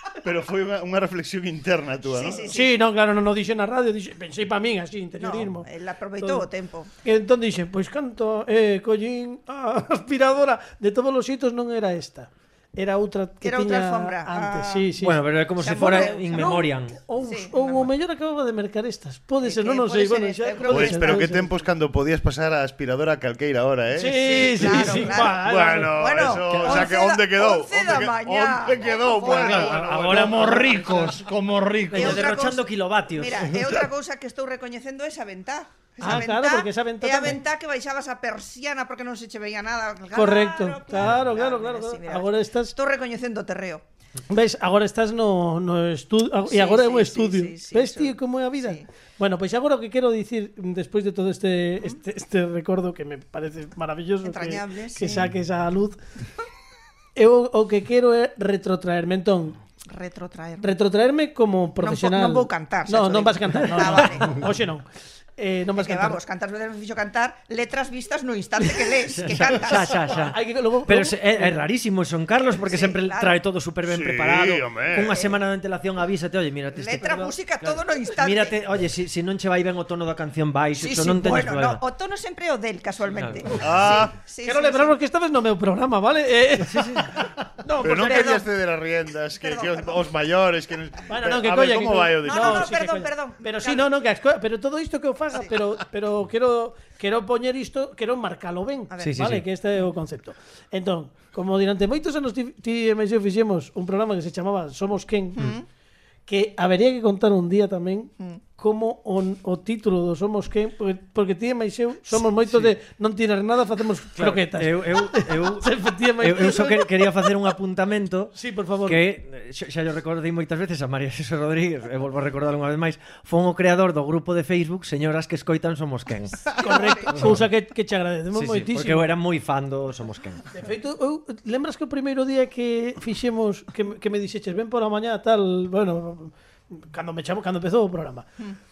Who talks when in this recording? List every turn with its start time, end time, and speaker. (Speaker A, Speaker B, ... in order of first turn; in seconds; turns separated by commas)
Speaker A: 0.2-2.4, Speaker B: 2.1-2.8, Speaker C: 2.5-5.7, Speaker B: 5.2-6.9, Speaker C: 7.0-21.5, Speaker B: 13.4-14.9, Speaker D: 15.0-17.0, Speaker B: 15.6-16.6, Speaker B: 17.2-17.9, Speaker B: 19.4-21.3, Speaker A: 20.7-31.2, Speaker C: 23.9-26.2, Speaker B: 24.1-30.3, Speaker E: 29.1-32.3, Speaker B: 31.9-43.8, Speaker D: 31.9-33.5, Speaker C: 36.0-37.4, Speaker C: 40.1-42.7, Speaker C: 44.3-56.0, Speaker B: 46.5-48.8, Speaker B: 54.2-55.3, Speaker C: 57.1-59.5, Speaker B: 59.9-60.7, Speaker C: 60.6-64.8, Speaker B: 61.8-64.5, Speaker C: 65.4-66.2, Speaker B: 65.7-70.2, Speaker D: 69.1-81.8, Speaker C: 70.1-71.6, Speaker B: 72.5-73.3, Speaker A: 73.8-75.1, Speaker B: 75.0-75.4, Speaker B: 76.7-78.6, Speaker B: 80.8-84.9, Speaker D: 83.1-83.4, Speaker A: 83.5-84.2, Speaker C: 84.4-88.4, Speaker D: 86.6-87.1, Speaker A: 87.8-92.8, Speaker B: 87.8-88.5, Speaker B: 89.3-90.1, Speaker C: 91.1-105.5, Speaker B: 92.2-93.9, Speaker D: 99.0-99.4, Speaker B: 105.3-105.7, Speaker C: 106.3-117.3, Speaker D: 112.4-112.7, Speaker D: 114.2-127.4, Speaker C: 118.3-119.0, Speaker B: 126.5-127.2, Speaker C: 126.5-129.1, Speaker D: 128.3-130.4, Speaker C: 130.5-138.3